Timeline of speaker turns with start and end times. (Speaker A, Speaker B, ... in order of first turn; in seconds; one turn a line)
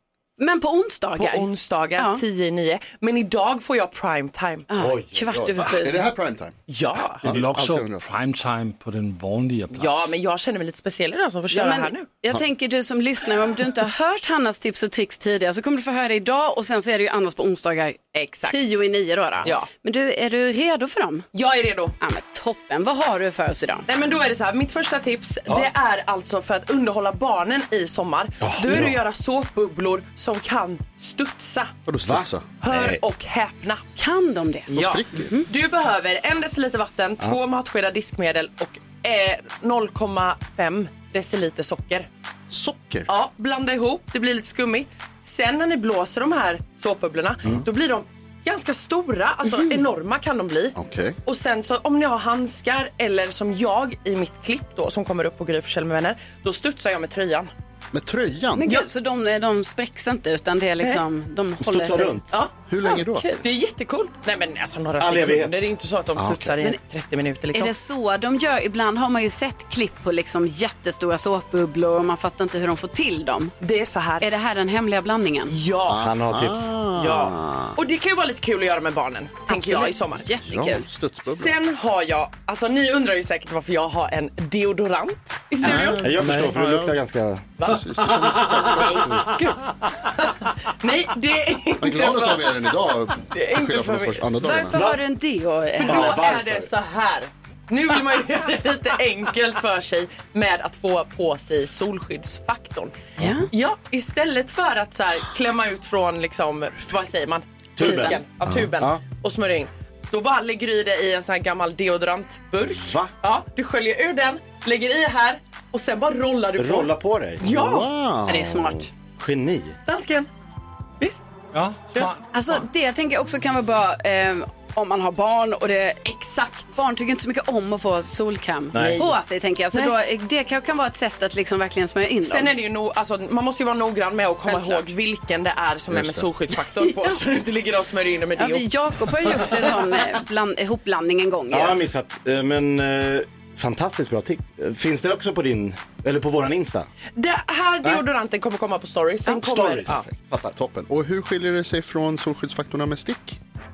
Speaker A: 0.4-2.2
Speaker B: 1.1-4.7
Speaker A: 4.7-6.0
Speaker C: 4.8-5.7
Speaker D: 5.8-6.5
Speaker B: 6.7-7.3
Speaker D: 7.2-8.0
Speaker E: 7.2-10.1
Speaker B: 9.7-12.1
Speaker A: 11.5-21.2
Speaker B: 18.1-18.8
Speaker B: 19.4-19.7
Speaker B: 21.3-21.9
Speaker A: 22.0-23.9
Speaker B: 23.9-31.7
Speaker C: 28.4-29.0
Speaker D: 31.9-32.5
Speaker C: 32.0-33.0
Speaker B: 32.6-33.8
Speaker A: 34.0-35.5
Speaker D: 34.7-35.3
Speaker B: 34.7-42.1
Speaker D: 42.5-43.1
Speaker B: 43.1-57.5
Speaker A: 49.5-49.8
Speaker D: 50.7-51.1
Speaker D: 57.9-58.8
Speaker A: 58.6-62.2
Speaker C: 61.6-62.3
Speaker D: 62.7-63.2
Speaker A: 62.8-63.4
Speaker B: 63.4-67.7
Speaker C: 65.0-65.6
Speaker D: 66.2-66.6
Speaker A: 67.5-73.5
Speaker B: 73.6-74.3
Speaker A: 74.2-75.5
Speaker B: 75.5-76.0
Speaker D: 75.9-77.8
Speaker C: 75.9-76.7
Speaker B: 76.9-80.3
Speaker A: 79.5-80.8
Speaker D: 80.4-81.5
Speaker B: 81.2-86.4
Speaker D: 85.6-87.0
Speaker C: 86.0-87.5
Speaker B: 87.6-92.6
Speaker D: 87.6-89.1
Speaker D: 91.8-94.8
Speaker B: 93.3-94.2
Speaker A: 94.4-96.2
Speaker C: 94.7-95.0
Speaker B: 95.7-102.9
Speaker C: 95.8-96.7
Speaker D: 103.2-103.5
Speaker A: 103.2-103.5
Speaker B: 103.5-117.9
Speaker C: 107.8-108.2
Speaker A: 107.8-108.2
Speaker D: 108.4-108.7
Speaker C: 108.8-109.0
Speaker C: 112.6-113.1
Speaker C: 116.6-117.4
Speaker D: 117.4-118.9
Speaker A: 118.2-118.9
Speaker C: 119.2-119.8
Speaker B: 119.9-120.3
Speaker E: 121.5-122.2
Speaker A: 122.3-132.5
Speaker B: 126.1-126.8
Speaker C: 128.7-129.1
Speaker B: 128.8-129.1
Speaker B: 132.2-139.9
Speaker A: 134.5-134.8
Speaker D: 135.9-136.3
Speaker A: 138.4-141.8
Speaker C: 141.5-146.9
Speaker B: 147.2-150.1
Speaker C: 149.3-150.5
Speaker D: 150.5-153.4